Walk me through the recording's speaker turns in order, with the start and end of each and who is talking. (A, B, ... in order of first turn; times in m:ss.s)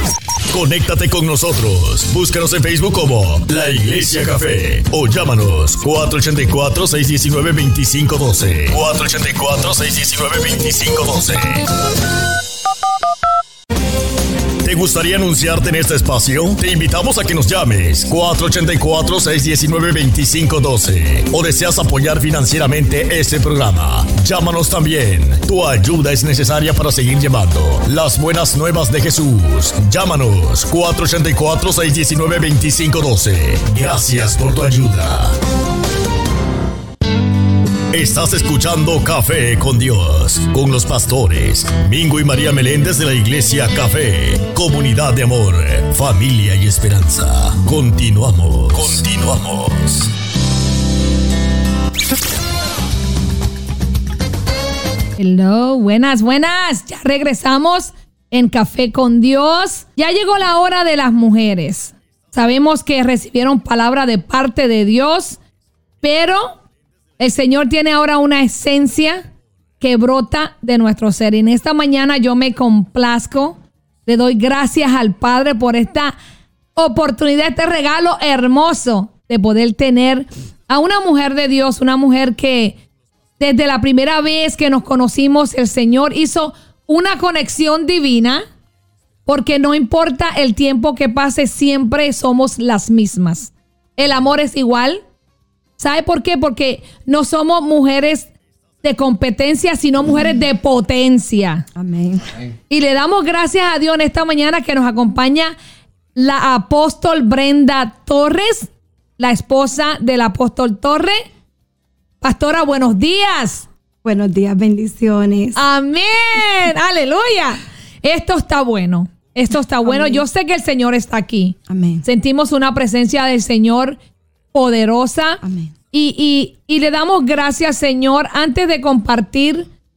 0:00.5-0:11.7 A
0:14.6-0:35.4 A
0:37.9-0:50.1 A
0:55.2-1:05.4 B
1:06.0-1:06.6 B
1:07.2-1:09.2 B
1:09.8-1:16.2 B
1:16.8-1:22.8 B
1:23.4-1:28.4 B
1:29.2-1:35.0 B
1:35.8-1:38.3 B
1:38.8-1:41.6 B
1:41.8-1:42.3 C
1:42.7-1:45.5 B
1:46.1-1:51.2 B
1:52.2-1:53.7 B
1:54.0-1:55.6 C
1:55.5-2:04.0 B
1:59.8-2:00.2 C
2:01.7-2:02.0 C
2:04.5-2:09.7 B
2:05.4-2:05.7 C